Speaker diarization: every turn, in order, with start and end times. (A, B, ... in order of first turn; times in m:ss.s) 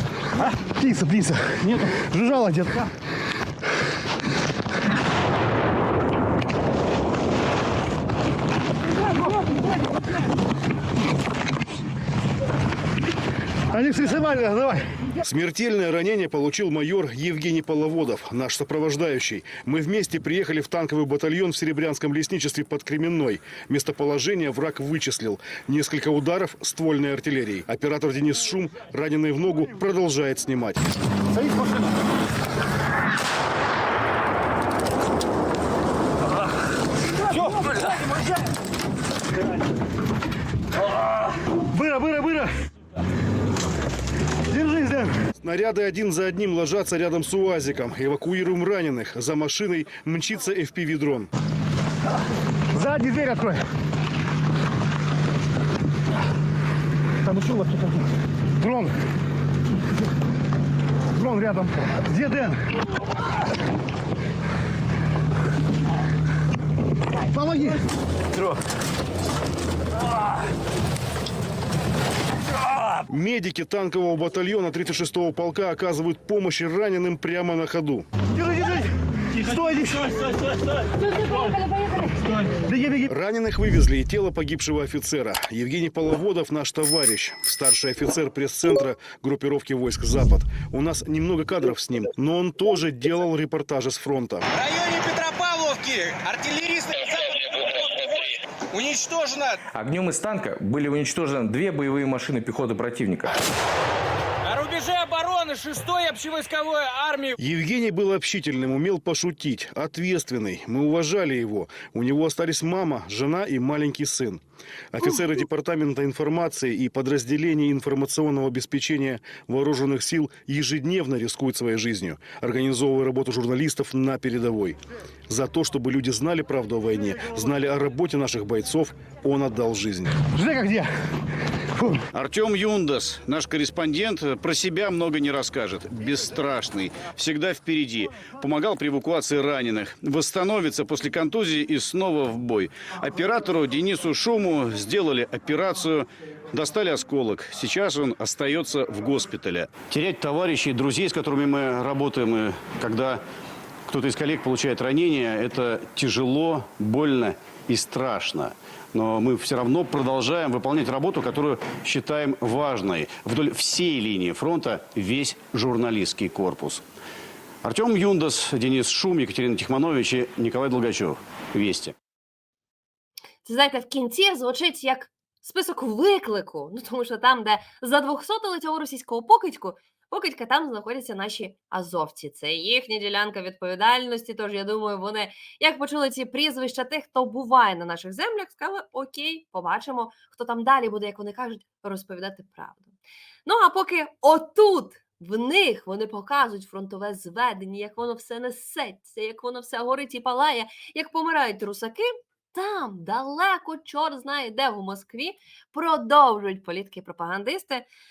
0:00.4-0:02.9 A
0:13.7-0:14.9 A
0:15.2-0:30.8 B
0:41.7-0:42.5 A
0:44.5-0:45.1 A
0:45.4-0:51.3 B
0:52.7-0:53.6 A
0:57.3-0:58.0 A
0:58.6-0:58.9 A
1:01.2-1:02.6 A
1:07.3-1:07.7 A
1:13.1-1:18.0 B
1:18.4-1:18.8 A
1:19.4-1:20.2 A
1:22.6-1:23.0 A
1:23.0-1:34.4 B
1:34.6-1:38.2 C
1:38.7-1:39.6 C
1:39.7-1:43.3 D
1:44.4-1:47.3 C
1:47.4-1:54.4 B
1:54.9-2:04.8 B
2:05.3-2:10.1 B
2:10.3-2:10.9 A
2:11.8-2:12.0 A
2:12.1-2:33.2 E
2:33.9-2:46.8 E
2:47.6-2:51.9 E
2:53.4-3:12.9 F
3:13.4-3:27.9 F